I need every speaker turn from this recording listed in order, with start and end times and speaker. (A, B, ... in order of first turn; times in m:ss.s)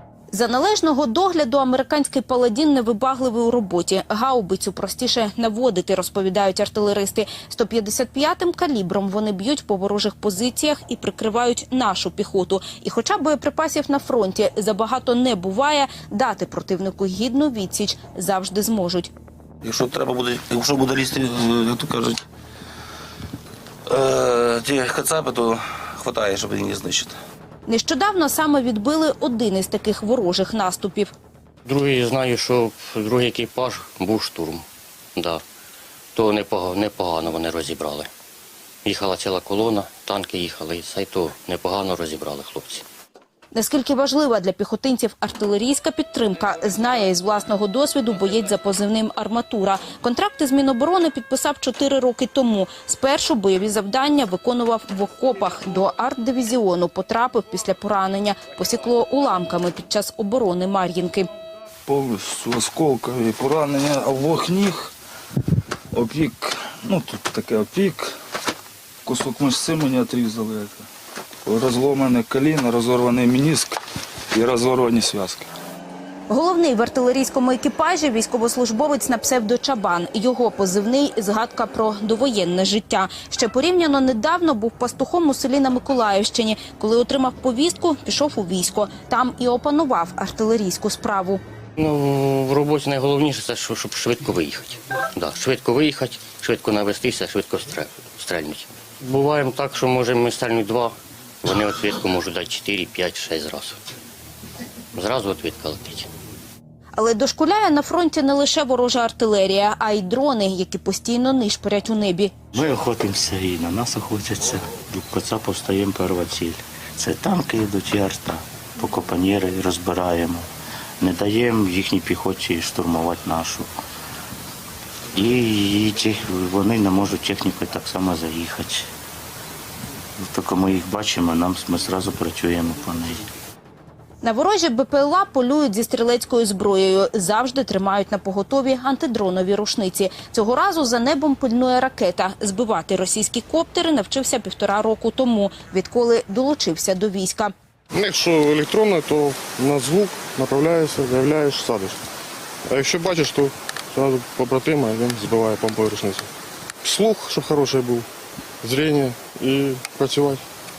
0:00.3-0:19.1 A
0:19.6-0:22.2 B
0:23.9-0:27.2 B
0:27.7-0:31.1 A
0:31.6-0:34.6 C
0:35.2-0:35.4 C
0:36.2-0:38.1 C
0:38.8-0:42.8 C
0:43.5-1:01.3 A
1:01.9-1:04.9 D
1:06.0-1:08.1 D
1:09.1-1:10.8 D
1:11.5-1:13.7 D
1:14.4-1:15.5 D
1:16.3-1:31.4 A
1:31.8-1:43.8 C
1:45.0-1:46.1 C
1:47.0-1:52.4 A
1:52.5-2:00.4 E
2:01.0-2:03.7 E
2:05.2-2:08.9 E
2:10.3-2:13.2 E
2:14.2-2:27.5 A
2:27.9-2:32.0 F
2:32.7-2:36.3 F
2:36.8-2:38.1 F
2:38.6-2:40.4 F